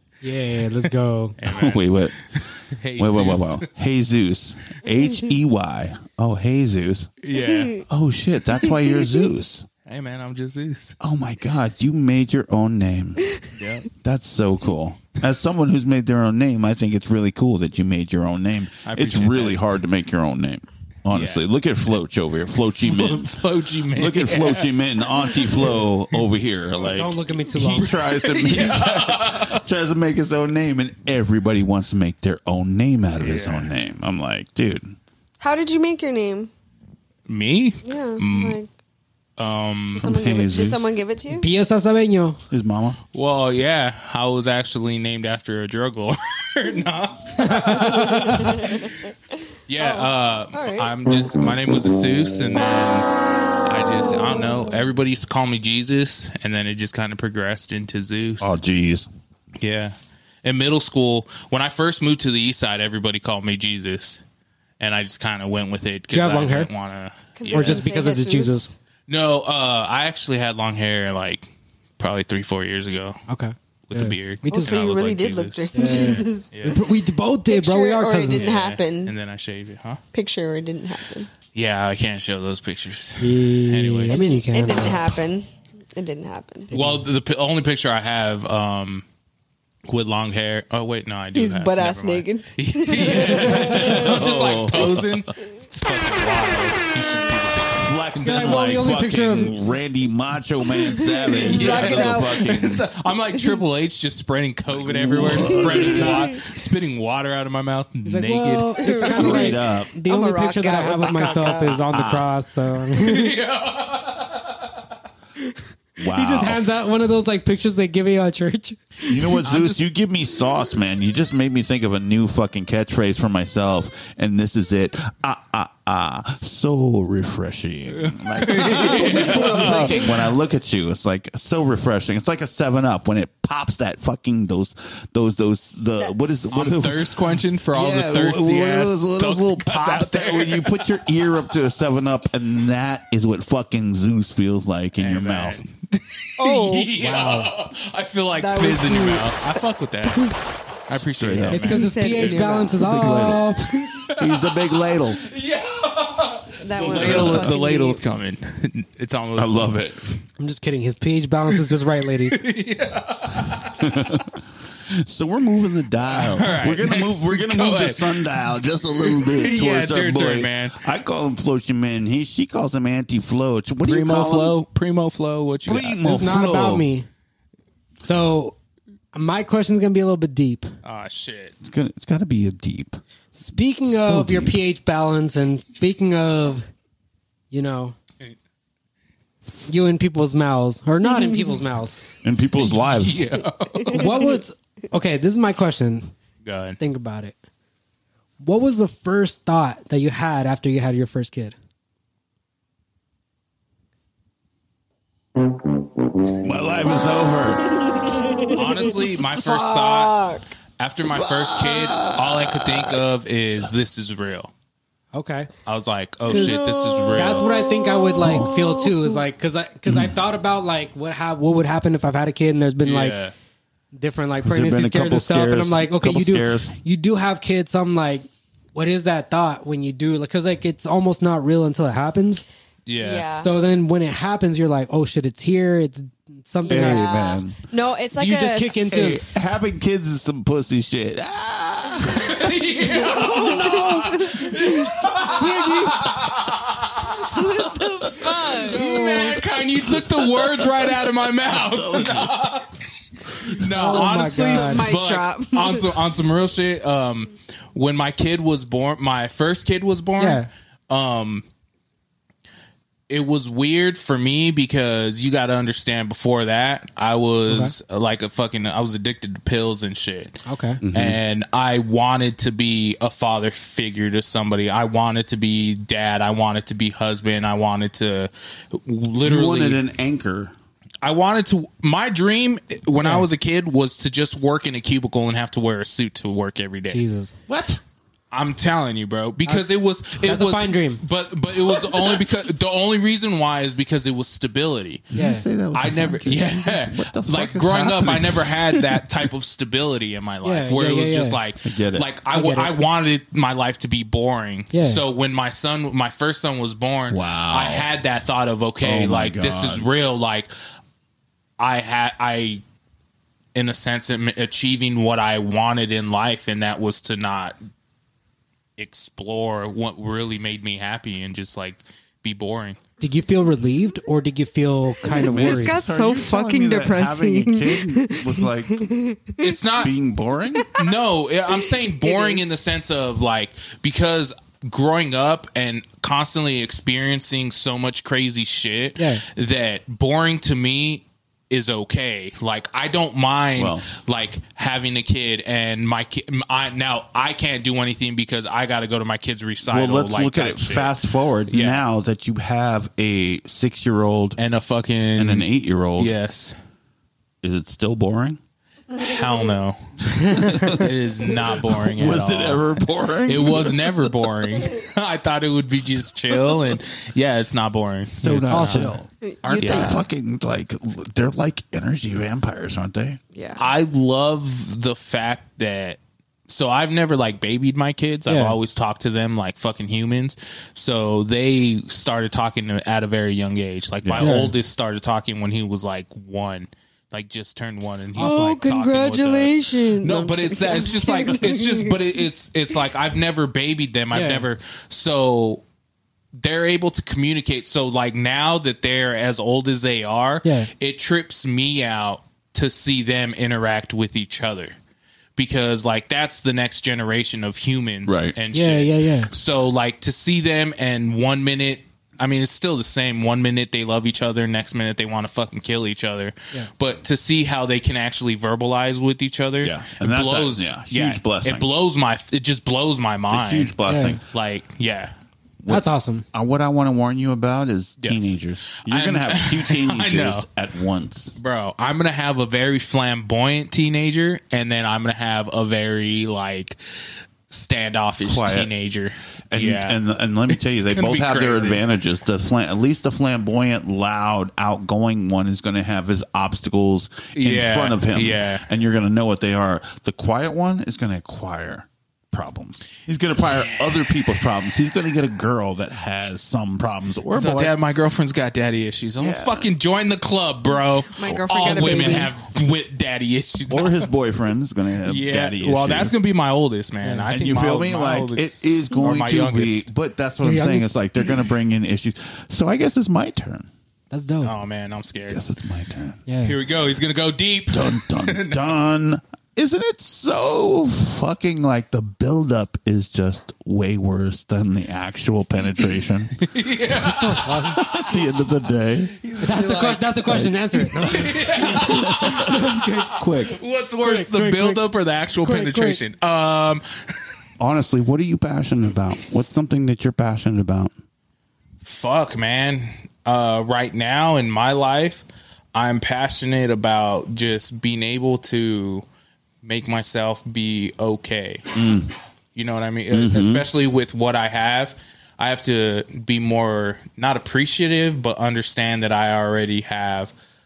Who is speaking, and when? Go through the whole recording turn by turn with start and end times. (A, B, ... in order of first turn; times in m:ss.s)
0:00.2-0:01.4 A
0:00.8-0:03.7 B
0:01.4-0:02.2 C
0:03.0-0:07.1 C
0:07.2-0:07.8 B
0:07.9-0:09.7 C
0:09.8-0:11.0 B
0:11.0-0:13.4 C
0:13.5-0:13.9 B
0:13.9-0:35.0 C
0:18.8-0:19.6 B
0:21.1-0:21.4 B
0:22.8-0:26.2 B
0:26.8-0:28.0 A
0:27.6-0:29.6 B
0:33.2-0:33.7 B
0:35.4-0:36.5 D
0:37.3-0:38.6 B
0:37.8-0:38.7 D
0:39.4-0:40.1 B
0:40.0-0:40.8 C
0:40.0-0:41.5 D
0:41.3-0:42.4 A
0:42.5-0:43.0 C
0:43.1-0:49.0 B
0:47.7-0:49.0 D
0:49.7-0:53.1 B
0:49.7-0:51.0 D
0:53.6-0:58.6 B
0:58.4-0:59.1 C
0:59.6-1:04.2 B
1:04.8-1:07.7 B
1:06.1-1:06.7 A
1:07.3-1:08.8 D
1:07.4-1:08.7 A
1:09.1-1:13.2 B
1:13.3-1:14.8 A
1:13.9-1:16.8 B
1:14.5-1:16.8 D
1:15.7-1:18.5 A
1:17.5-1:19.1 D
1:18.3-1:20.0 B
1:20.1-1:21.3 D
1:21.5-1:24.4 B
1:23.2-1:25.1 A
1:24.1-1:26.7 D
1:26.7-1:27.0 A
1:26.7-1:29.0 B
1:29.9-1:38.0 B
1:31.3-1:34.2 D
1:33.3-1:35.3 C
1:37.8-1:42.9 C
1:38.2-1:39.6 A
1:40.7-1:42.4 D
1:41.4-1:49.5 B
1:44.8-1:46.2 C
1:45.5-1:46.3 D
1:48.0-1:53.3 A
1:48.6-1:51.8 D
1:49.1-1:49.9 C
1:51.9-1:52.2 B
1:52.9-1:54.6 B
1:56.0-1:56.6 C
1:56.1-1:59.4 A
1:59.1-2:25.6 C
1:59.4-1:59.8 B
2:08.0-2:10.0 B
2:08.6-2:10.1 D
2:16.0-2:16.7 D
2:16.5-2:21.0 B
2:25.0-2:30.3 B
2:26.4-2:27.3 D
2:27.0-2:27.5 A
2:28.3-2:29.4 D
2:30.0-2:30.4 D
2:30.9-2:31.9 B
2:31.2-2:31.6 C
2:31.5-2:33.9 A
2:31.6-2:33.0 D
2:32.2-2:33.5 C
2:34.1-2:39.8 B
2:34.2-2:35.2 C
2:36.6-2:38.0 D
2:36.8-2:37.5 C
2:39.4-2:40.1 C
2:40.4-2:42.4 A
2:42.3-2:43.8 B
2:43.8-2:44.3 C
2:45.0-2:54.6 C
2:46.1-2:48.3 B
2:49.0-2:50.8 B
2:53.8-2:56.0 B
2:55.6-2:56.9 C
2:56.0-2:57.1 A
2:58.0-2:58.6 A
2:59.1-3:00.7 A
3:00.8-3:01.5 B
3:01.6-3:03.0 C
3:03.3-3:06.7 A
3:03.8-3:04.6 C
3:07.5-3:08.0 A
3:09.7-3:12.0 A
3:11.2-3:11.5 D
3:12.2-3:13.2 C
3:12.6-3:14.1 B
3:13.9-3:16.1 A
3:13.9-3:14.3 D
3:16.4-3:16.8 B
3:16.8-3:17.4 A
3:18.4-3:21.6 A
3:26.4-3:27.7 C
3:26.9-3:30.5 D
3:28.5-3:34.5 B
3:31.1-3:33.0 C
3:35.1-3:35.5 A
3:35.6-3:37.5 B
3:36.3-3:38.9 D
3:36.3-3:36.6 A
3:37.1-3:43.2 A
3:38.2-3:38.5 C
3:39.8-3:40.2 C
3:42.8-3:43.3 B
3:43.9-3:52.4 A
3:44.4-3:46.7 C
3:52.8-3:53.3 B
3:53.0-3:53.5 D
3:53.4-3:57.0 A
3:56.6-3:59.0 D
3:56.7-3:57.6 C
3:58.2-3:59.2 A
3:58.9-4:02.5 C
4:02.1-4:07.2 B
4:03.1-4:04.4 D
4:03.2-4:04.1 C
4:05.3-4:06.0 A
4:07.2-4:08.9 D
4:07.6-4:12.3 C
4:08.5-4:12.7 B
4:08.8-4:09.4 A
4:13.4-4:21.4 B
4:13.7-4:14.9 A
4:14.5-4:16.0 D
4:20.2-4:20.5 A
4:23.1-4:30.4 B
4:27.5-4:27.7 A
4:30.4-4:30.8 A
4:30.8-4:31.2 C
4:30.9-4:39.8 B
4:39.2-4:40.5 C
4:41.0-4:47.0 B
4:43.0-4:43.3 A
4:46.9-4:47.4 A
4:47.5-4:47.8 C
4:48.3-4:55.1 B
4:49.4-4:51.0 A
4:55.1-4:59.0 C
4:55.1-4:55.5 A
4:55.7-5:10.5 B
5:00.4-5:01.4 A
5:01.6-5:02.1 C
5:02.3-5:02.8 A
5:04.7-5:05.0 A
5:07.1-5:07.9 C
5:08.8-5:09.9 C
5:11.6-5:12.6 B
5:13.5-5:17.6 B
5:18.8-5:22.8 B
5:23.0-5:25.8 A
5:25.1-5:29.4 D
5:25.1-5:28.8 C
5:29.4-5:29.9 B
5:29.8-5:30.7 C
5:30.8-5:51.0 B
5:32.0-5:32.5 D
5:39.0-5:39.2 A
5:43.6-5:43.9 C
5:49.6-5:54.4 C
5:51.5-5:51.8 B
5:54.4-5:56.6 B
5:55.2-5:56.1 C
5:57.4-5:58.4 C
5:58.9-5:59.8 B
6:00.3-6:00.9 C
6:00.5-6:09.0 B
6:01.7-6:04.0 C
6:08.1-6:13.2 C
6:08.2-6:09.0 A
6:09.3-6:10.0 D
6:09.6-6:10.1 B
6:13.3-6:13.7 D
6:13.6-6:35.6 B
6:18.2-6:18.6 A
6:24.0-6:24.5 C
6:24.2-6:24.6 A
6:28.1-6:32.2 D
6:28.2-6:28.5 A
6:34.1-6:34.5 A
6:36.4-6:44.8 B
6:40.4-6:40.7 A
6:45.4-7:03.8 B
6:48.0-6:48.4 C
6:48.5-6:49.3 A
6:59.6-7:01.7 C
7:03.3-7:04.2 C
7:03.8-7:04.2 A
7:04.3-7:05.1 B
7:05.6-7:11.4 C
7:05.7-7:06.2 A
7:08.0-7:10.5 B
7:11.4-7:16.8 B
7:17.5-7:21.8 B
7:18.2-7:18.7 C
7:19.5-7:37.8 C
7:27.3-7:28.6 B
7:33.4-7:34.1 B
7:37.3-7:44.1 B
7:39.2-7:39.7 C
7:40.7-7:42.3 D
7:41.3-7:42.2 C
7:43.7-7:46.2 C
7:45.0-7:49.9 B
7:47.0-7:47.3 A
7:47.3-7:53.7 C
7:50.4-7:50.9 A
7:54.1-7:54.5 A
7:54.4-7:55.5 B
7:55.3-7:56.2 C
7:56.3-7:56.6 A
7:56.4-7:58.7 B
7:57.7-8:06.3 C
8:05.8-8:07.8 B
8:07.0-8:07.8 A
8:07.5-8:09.2 C
8:09.2-8:16.8 B
8:09.4-8:13.1 A
8:10.3-8:10.6 C
8:11.7-8:13.6 C
8:14.0-8:14.8 A
8:15.4-8:16.0 A
8:17.6-8:20.9 C
8:21.8-8:29.0 B
8:29.6-8:31.7 B
8:31.7-8:32.1 C
8:32.5-8:40.3 B
8:33.1-8:33.7 C